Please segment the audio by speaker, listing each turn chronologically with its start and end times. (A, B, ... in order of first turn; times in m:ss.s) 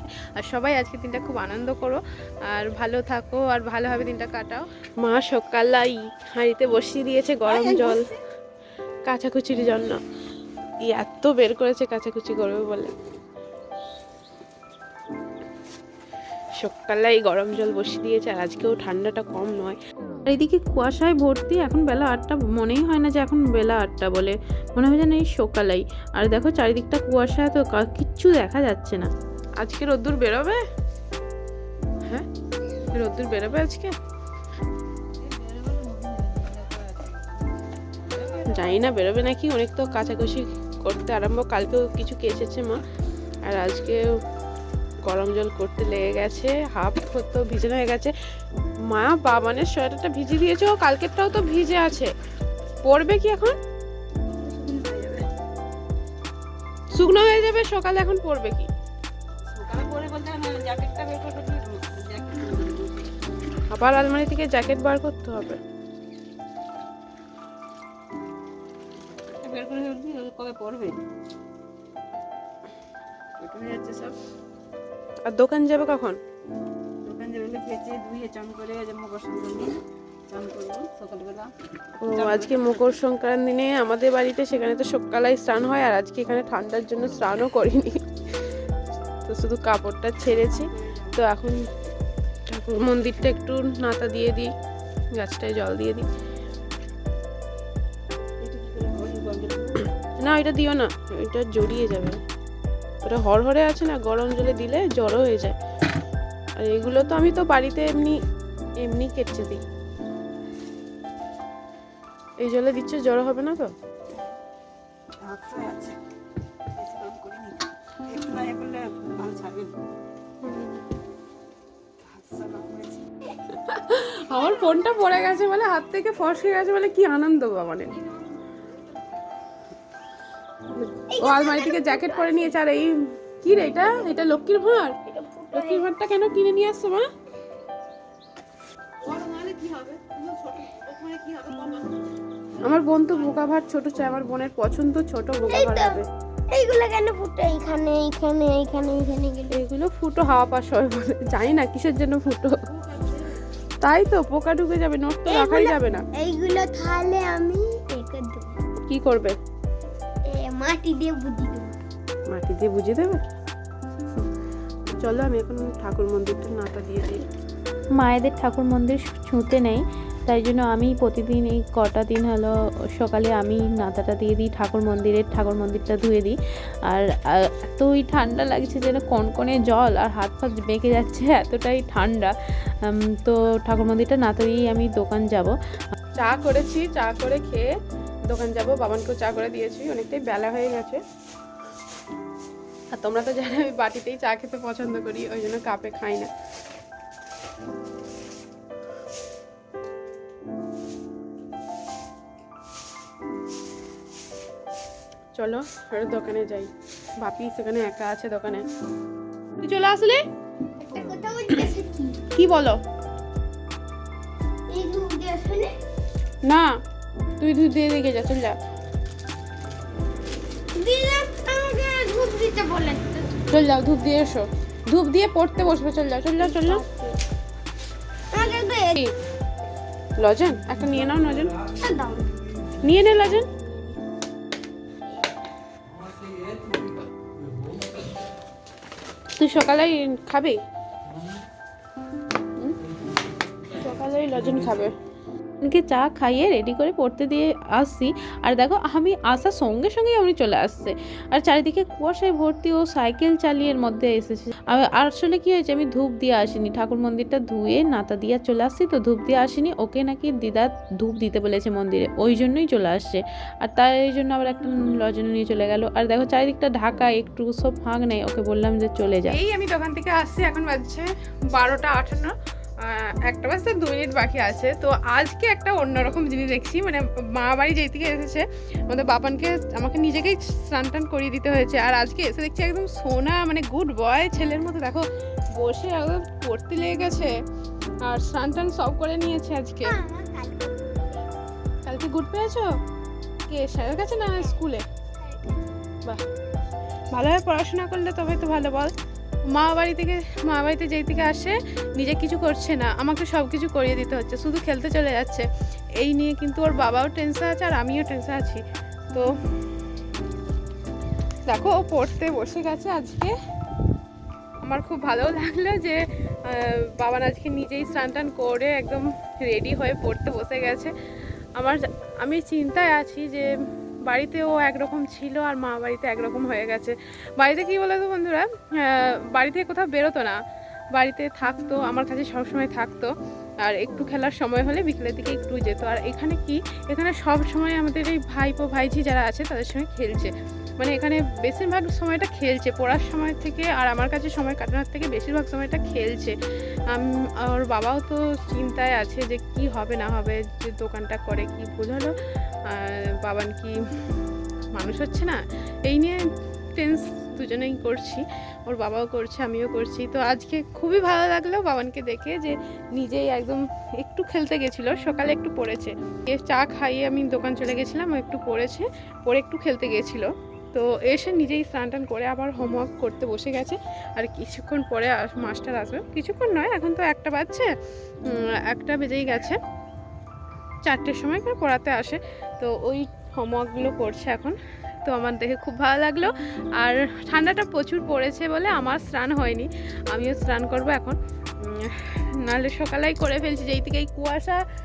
0:00.4-0:02.0 A
0:02.5-0:08.0 A
0:07.4-0:08.1 B
0:09.1-0:10.0 A
0:10.9-0:12.9 A
0:16.6-0:19.8 A
0:20.3-0:29.1 C
0:29.6-0:30.6 A
0:32.9-0:33.9 A
0:35.2-0:37.4 B
0:38.0-0:38.9 B
0:38.4-0:42.8 A
0:43.5-0:44.0 A
0:45.1-0:48.1 A
0:48.9-0:52.1 A
0:52.8-0:53.6 A
0:54.3-0:55.3 B
0:56.9-0:58.7 A
0:59.5-1:03.1 B
1:03.7-1:05.6 A
1:09.2-1:11.0 B
1:13.4-1:14.2 B
1:15.3-1:16.2 A
1:17.0-1:21.5 B
1:22.0-1:28.0 A
1:22.0-1:23.0 B
1:29.3-1:31.6 A
1:30.2-1:31.2 B
1:32.5-1:34.5 A
1:35.2-1:36.1 A
1:38.4-1:39.9 B
1:40.2-1:42.2 A
1:43.0-1:45.6 A
1:46.6-1:48.2 A
1:48.8-1:49.6 A
1:52.4-1:53.7 A
1:55.2-1:56.0 B
1:56.7-1:59.8 B
2:00.4-2:00.8 A
2:02.0-2:03.1 B
2:03.5-2:08.0 A
2:10.7-2:15.0 A
2:11.1-2:12.6 D
2:15.0-2:15.9 D
2:15.5-2:17.0 A
2:19.0-2:22.1 B
2:22.6-2:26.0 A
2:22.7-2:23.5 B
2:25.5-2:29.6 D
2:29.5-2:33.1 A
2:33.8-2:36.0 A
2:35.2-2:38.6 D
2:38.9-2:39.3 A
2:40.3-2:41.8 D
2:42.3-2:43.2 A
2:44.9-2:47.2 A
2:48.0-3:05.5 C
3:06.2-3:07.7 A
3:08.3-3:11.0 A
3:12.9-3:16.3 A
3:25.4-3:26.7 A
3:27.2-3:28.6 A
3:29.6-3:30.2 A
3:30.8-3:32.3 D
3:32.3-3:32.8 A
3:34.7-3:35.7 D
3:36.4-3:36.7 A
3:37.4-3:38.6 A
3:40.7-3:43.3 D
3:43.5-3:46.8 A
3:46.4-3:47.2 D
3:48.3-3:49.0 D
3:50.1-3:51.6 A
3:51.8-3:52.3 D
3:52.8-3:53.5 A
3:53.1-3:54.0 D
3:59.4-4:00.6 A
4:03.7-4:04.9 A
4:05.6-4:29.4 C
4:29.2-4:45.0 A
4:45.6-4:47.3 A
4:48.0-4:50.0 A
4:49.8-4:51.3 D
4:51.8-4:52.7 A
4:53.5-4:54.8 A
4:54.0-4:54.5 D
4:55.2-4:55.6 D
4:57.1-4:58.9 A
4:59.5-5:09.4 A
5:11.5-5:13.4 A
5:14.6-5:20.9 A
5:21.6-5:23.5 A
5:24.1-5:30.4 A
5:30.9-5:33.1 A
5:33.6-5:46.4 A
5:46.9-5:52.1 A
5:52.7-5:53.8 A
5:54.8-5:56.2 A
5:56.8-6:17.7 A
6:18.3-6:19.6 A
6:20.8-6:34.6 A